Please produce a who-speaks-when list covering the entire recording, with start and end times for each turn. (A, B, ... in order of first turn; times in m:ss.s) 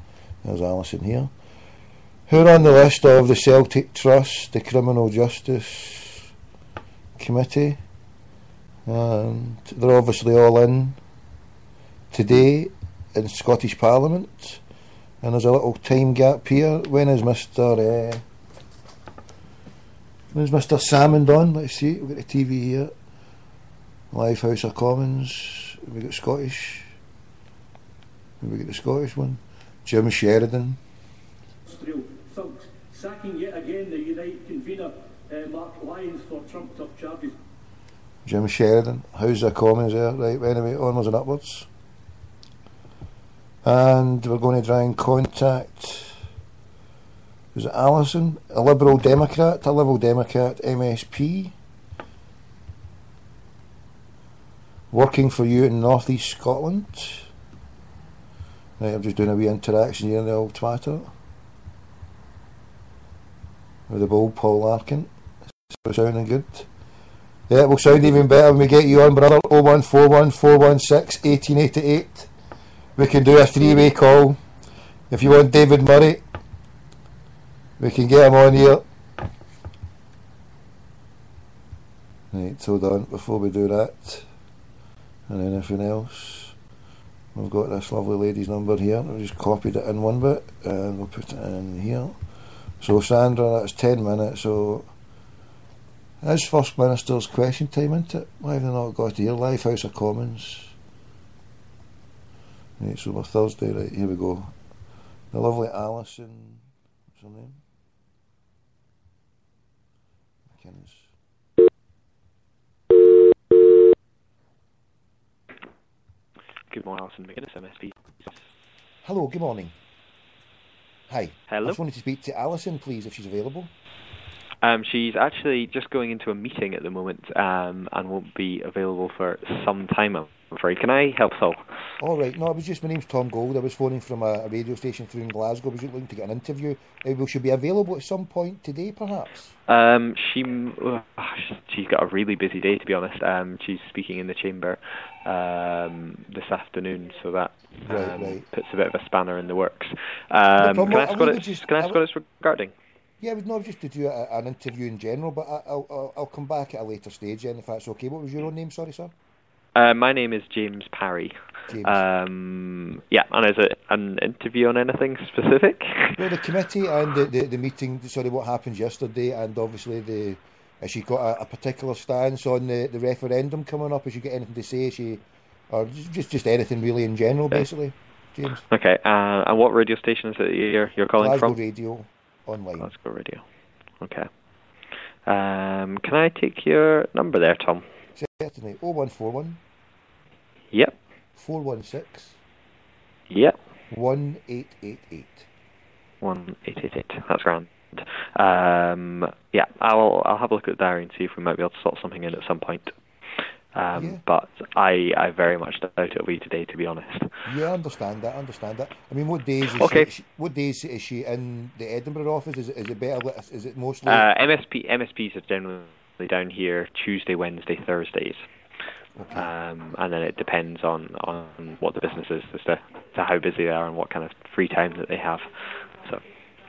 0:00.4-0:01.3 A
0:02.3-0:06.3 A
0:07.2-0:07.8 A
0:08.9-0:11.0 A
0:12.1-0:14.6 A
0:15.2-0:18.2 A
0:20.3-0:22.9 A
0:24.1-0:26.9 A
0:28.4-0:30.8 A
0:31.7-0:37.3 B
0:38.2-0:41.7 A
0:43.6-0:46.2 A
0:47.5-0:51.5 A
0:54.9-0:57.3 A
0:58.8-1:01.1 A
1:03.9-1:05.1 A
1:05.7-1:06.7 A
1:07.5-1:12.3 A
1:13.0-1:14.4 A
1:15.1-1:16.2 A
1:17.8-1:18.8 A
1:22.3-1:24.3 A
1:25.3-1:26.5 A
1:27.3-1:32.1 A
1:32.8-1:34.9 A
1:36.2-1:40.7 A
1:42.8-1:44.5 A
1:45.3-1:46.6 A
1:47.1-1:47.6 A
1:50.5-1:51.1 A
1:56.7-1:58.3 C
1:59.0-1:59.7 A
2:01.1-2:03.7 A
2:01.5-2:01.8 C
2:04.6-2:11.6 C
2:12.0-2:19.5 A
2:19.7-2:32.7 C
2:27.8-2:28.4 A
2:30.6-2:32.0 A
2:33.2-2:39.1 A
2:39.8-2:46.2 C
2:41.7-2:42.0 A
2:46.2-2:58.6 A
2:58.7-3:01.6 C
3:01.2-3:02.9 A
3:02.8-3:03.4 C
3:04.0-3:04.3 C
3:05.2-3:07.8 C
3:08.2-3:09.6 A
3:11.3-3:12.4 A
3:13.3-3:13.5 C
3:13.9-3:15.5 A
3:16.2-3:22.9 C
3:23.7-3:27.3 C
3:23.9-3:24.2 A
3:27.4-3:34.2 A
3:29.7-3:30.1 C
3:34.0-3:38.4 C
3:39.2-3:39.5 A
3:39.3-3:45.5 C